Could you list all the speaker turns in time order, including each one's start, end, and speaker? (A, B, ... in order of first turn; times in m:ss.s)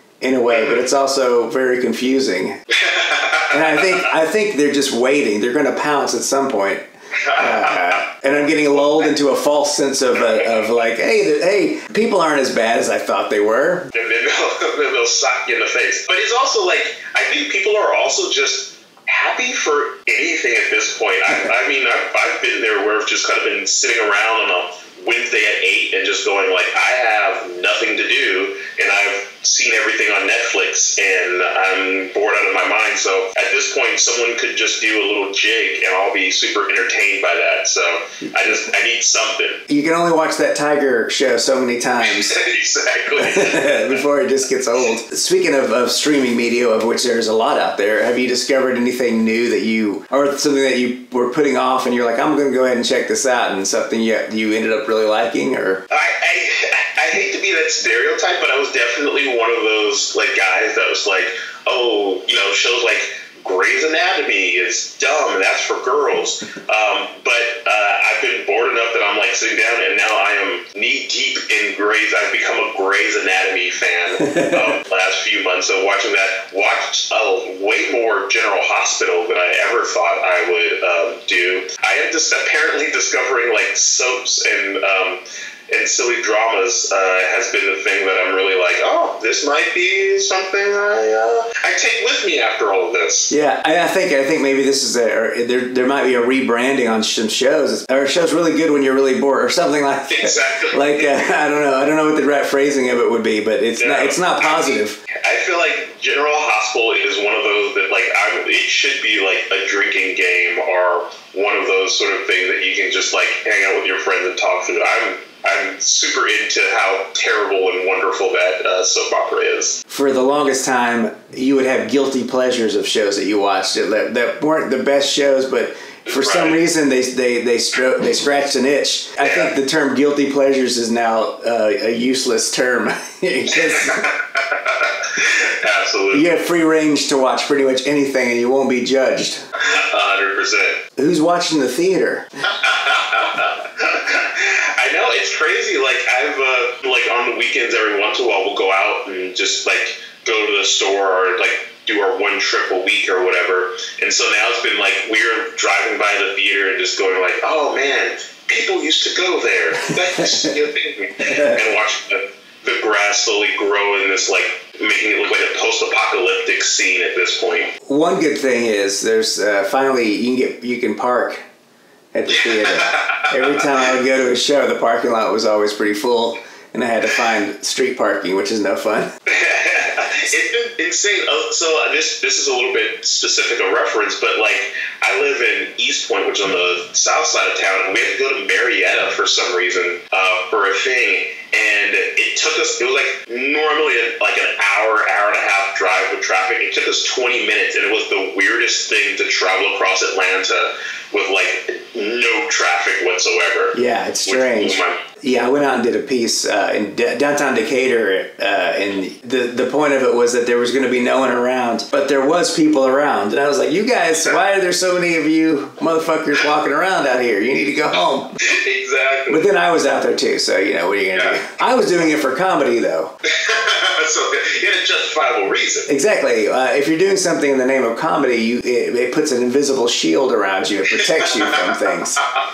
0:00.2-0:02.6 A
0:00.5-0:00.8 B
0:02.8-0:04.0 B
0:03.5-0:06.8 A
0:07.2-0:08.0 B
0:07.4-0:13.9 A
0:13.9-0:39.6 B
0:39.7-0:42.4 A
0:42.0-0:44.0 B
0:43.2-0:55.8 A
0:55.9-1:33.3 B
1:14.2-1:14.7 A
1:33.3-1:45.0 A
1:40.1-1:41.3 B
1:43.8-1:59.8 B
1:59.9-2:14.0 A
2:06.1-2:06.6 B
2:09.2-2:09.5 B
2:13.6-2:16.4 B
2:16.1-2:19.4 A
2:19.6-2:20.8 B
2:21.0-2:22.3 A
2:22.5-2:47.7 B
2:40.2-2:40.5 A
2:41.2-2:41.6 A
2:47.9-2:51.4 A
2:52.1-2:59.1 A
2:52.3-2:53.7 B
2:59.3-3:25.0 B
3:23.7-3:38.4 A
3:38.4-3:39.4 B
3:39.3-3:43.1 A
3:43.3-3:45.9 B
3:45.9-3:52.2 A
3:51.2-3:51.7 B